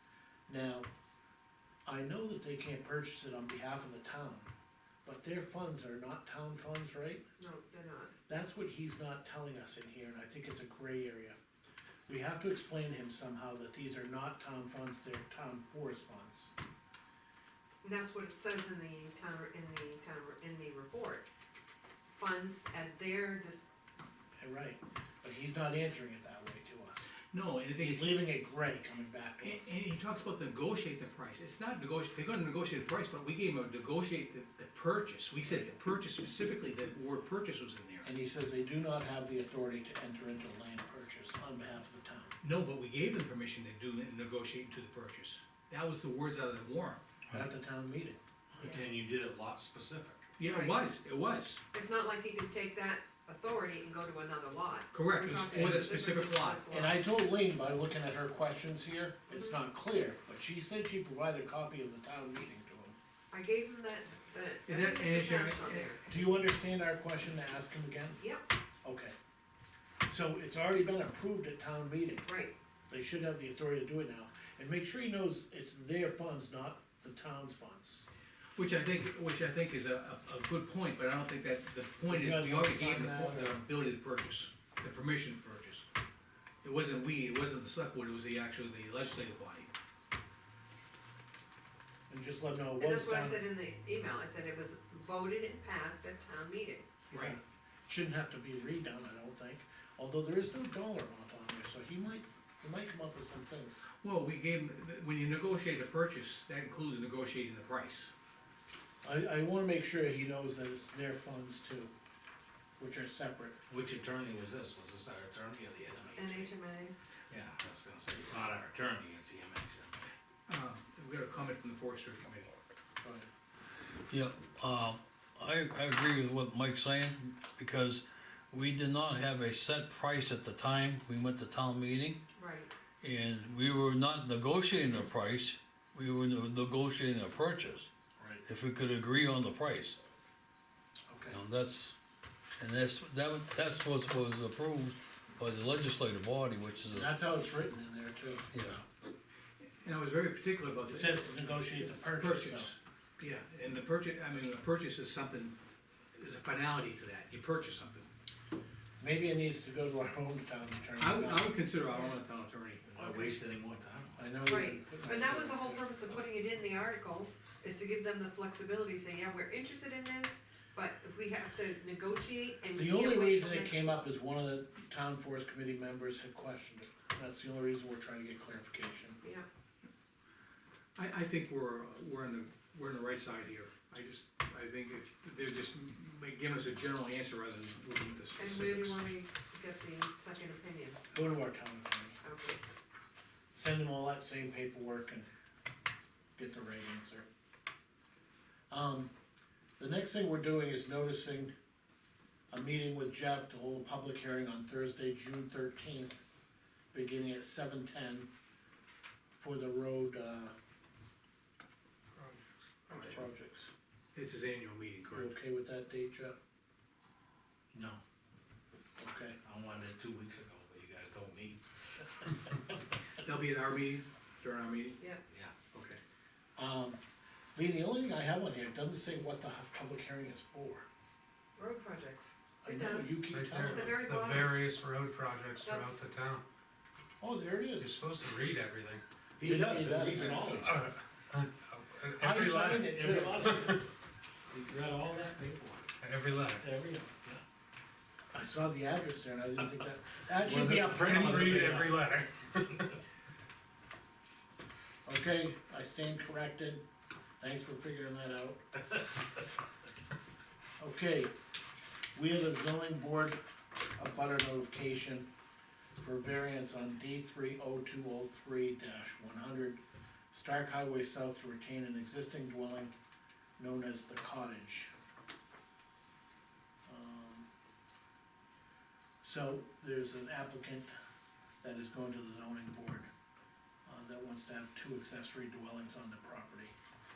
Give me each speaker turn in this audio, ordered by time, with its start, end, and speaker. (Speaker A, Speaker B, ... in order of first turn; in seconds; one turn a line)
Speaker A: 0.5-0.9
Speaker A: 1.9-4.5
Speaker A: 5.0-7.2
Speaker B: 7.4-8.1
Speaker A: 8.3-11.4
Speaker A: 12.1-16.5
Speaker B: 17.8-21.2
Speaker B: 22.1-23.6
Speaker A: 24.4-27.1
Speaker C: 27.3-28.2
Speaker A: 27.8-29.7
Speaker C: 29.4-38.1
Speaker A: 35.4-35.8
Speaker A: 38.0-42.4
Speaker C: 42.4-47.0
Speaker A: 47.3-48.2
Speaker D: 48.5-50.3
Speaker B: 48.6-48.9
Speaker C: 50.4-51.6
Speaker B: 50.4-50.8
Speaker B: 51.7-57.0
Speaker C: 54.9-56.6
Speaker A: 56.7-63.0
Speaker B: 59.3-59.6
Speaker B: 63.3-66.1
Speaker C: 64.7-65.9
Speaker A: 66.1-68.2
Speaker B: 68.2-68.5
Speaker A: 68.8-69.1
Speaker A: 70.1-72.3
Speaker B: 72.2-72.5
Speaker A: 72.9-78.0
Speaker C: 78.5-85.9
Speaker A: 82.0-83.6
Speaker C: 86.6-89.7
Speaker A: 92.1-93.4
Speaker B: 92.8-96.9
Speaker C: 97.1-97.4
Speaker A: 97.1-103.8
Speaker C: 104.0-108.1
Speaker A: 109.0-111.9
Speaker A: 112.8-113.6
Speaker D: 113.7-116.5
Speaker B: 116.2-116.9
Speaker D: 117.3-120.1
Speaker C: 120.5-122.5
Speaker A: 123.0-123.3
Speaker E: 124.1-132.2
Speaker B: 132.3-132.7
Speaker E: 133.0-137.9
Speaker E: 138.4-140.0
Speaker A: 141.1-141.4
Speaker E: 141.3-141.9
Speaker E: 142.6-147.1
Speaker A: 146.9-148.8
Speaker E: 148.5-148.8
Speaker C: 149.6-155.6
Speaker A: 150.9-152.7
Speaker C: 156.1-158.1
Speaker A: 159.0-161.6
Speaker C: 161.0-163.1
Speaker B: 161.9-162.2
Speaker D: 162.8-164.2
Speaker A: 164.2-165.9
Speaker B: 164.4-174.0
Speaker A: 172.8-179.2
Speaker C: 180.9-189.0
Speaker B: 188.3-191.0
Speaker A: 191.1-192.2
Speaker B: 192.2-192.6
Speaker A: 193.5-195.3
Speaker A: 196.4-197.3
Speaker A: 198.7-199.1
Speaker A: 199.8-201.5
Speaker A: 202.5-206.2
Speaker A: 206.9-208.3
Speaker A: 209.3-210.5
Speaker A: 212.9-213.7
Speaker C: 214.1-215.3
Speaker A: 215.1-216.4
Speaker D: 217.7-218.0
Speaker A: 219.0-219.4
Speaker D: 219.4-222.8
Speaker C: 223.2-225.0
Speaker D: 225.3-225.6
Speaker C: 225.7-226.0
Speaker A: 226.6-227.0
Speaker A: 227.5-230.8
Speaker B: 231.6-234.6
Speaker A: 232.6-234.0
Speaker F: 233.3-236.4
Speaker B: 235.6-236.0
Speaker A: 237.2-238.0
Speaker F: 237.8-239.0
Speaker D: 239.4-240.7
Speaker A: 239.4-240.8
Speaker F: 240.6-243.9
Speaker A: 242.2-243.6
Speaker D: 242.8-243.8
Speaker D: 244.5-245.8
Speaker F: 246.0-246.7
Speaker D: 246.6-247.4
Speaker A: 248.3-251.6
Speaker D: 250.3-252.0
Speaker F: 250.5-252.9
Speaker A: 255.1-256.8
Speaker A: 257.4-258.6
Speaker A: 260.8-261.3
Speaker A: 262.1-263.4
Speaker A: 264.0-265.3
Speaker A: 266.0-269.8
Speaker A: 270.3-272.9
Speaker A: 273.6-274.9
Speaker A: 276.9-277.5
Speaker A: 279.2-280.9
Speaker A: 281.6-283.1
Speaker A: 283.9-286.7